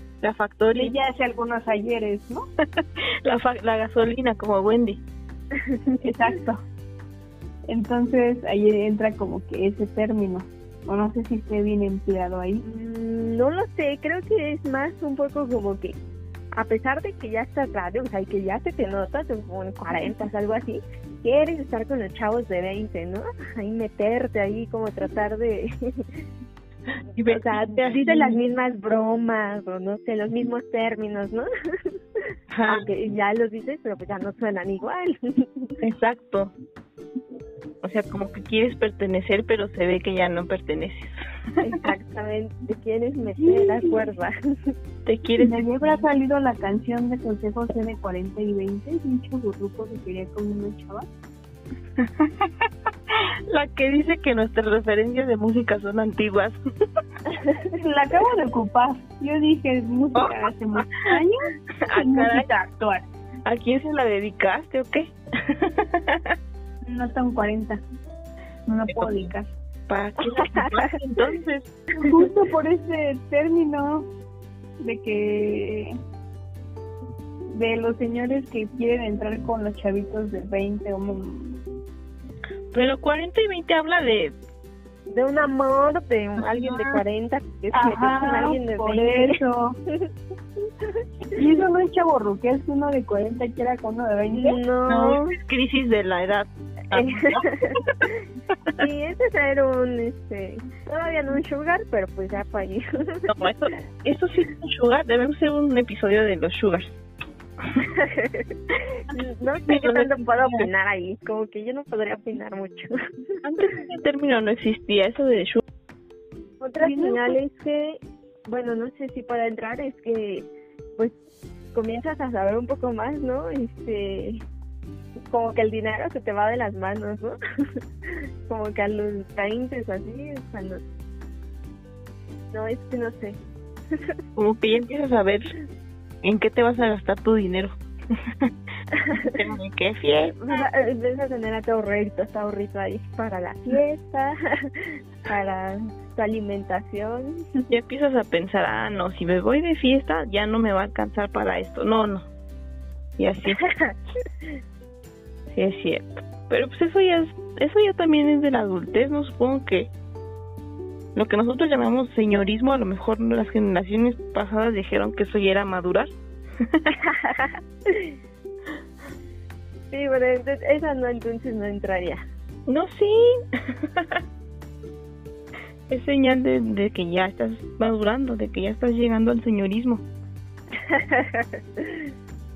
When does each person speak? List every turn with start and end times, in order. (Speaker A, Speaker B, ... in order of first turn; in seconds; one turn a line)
Speaker A: 0.2-0.9
Speaker B: 0.8-2.5
Speaker A: 2.8-5.0
Speaker C: 5.6-6.1
Speaker B: 6.0-6.6
Speaker B: 7.7-12.6
Speaker C: 12.6-15.9
Speaker C: 16.6-26.0
Speaker A: 27.1-28.4
Speaker C: 27.2-31.5
Speaker A: 32.5-32.9
Speaker C: 32.7-35.7
Speaker A: 35.8-36.5
Speaker A: 37.8-41.2
Speaker C: 41.6-44.7
Speaker B: 43.4-44.1
Speaker A: 45.0-45.6
Speaker B: 45.4-51.0
Speaker A: 52.0-56.6
Speaker C: 57.3-57.7
Speaker B: 57.7-63.0
Speaker A: 60.1-60.4
Speaker A: 61.8-62.5
Speaker A: 63.4-66.4
Speaker B: 66.8-67.8
Speaker B: 68.7-69.5
Speaker A: 68.9-69.3
Speaker A: 69.9-71.7
Speaker C: 70.3-70.9
Speaker B: 72.0-74.1
Speaker B: 74.8-75.9
Speaker B: 77.5-81.6
Speaker A: 82.7-84.3
Speaker C: 85.1-89.4
Speaker A: 86.4-87.0
Speaker B: 87.7-89.8
Speaker B: 91.3-94.6
Speaker C: 94.4-95.3
Speaker A: 94.9-98.0
Speaker C: 96.9-97.8
Speaker C: 98.7-103.3
Speaker A: 103.3-107.0
Speaker C: 107.8-108.5
Speaker C: 109.1-112.9
Speaker A: 109.6-110.7
Speaker A: 113.4-115.6
Speaker C: 116.6-121.1
Speaker B: 116.8-117.4
Speaker C: 121.7-124.4
Speaker C: 125.3-127.4
Speaker C: 128.1-130.8
Speaker C: 132.5-133.4
Speaker A: 134.3-135.5
Speaker A: 136.2-138.5
Speaker C: 138.9-139.3
Speaker A: 139.2-140.4
Speaker C: 140.4-147.7
Speaker A: 147.7-152.3
Speaker A: 153.2-153.7
Speaker A: 155.5-159.9
Speaker A: 161.1-166.1
Speaker A: 166.6-166.9
Speaker C: 167.1-168.1
Speaker C: 169.9-172.2
Speaker A: 172.7-174.2
Speaker A: 175.9-180.0
Speaker C: 180.9-182.1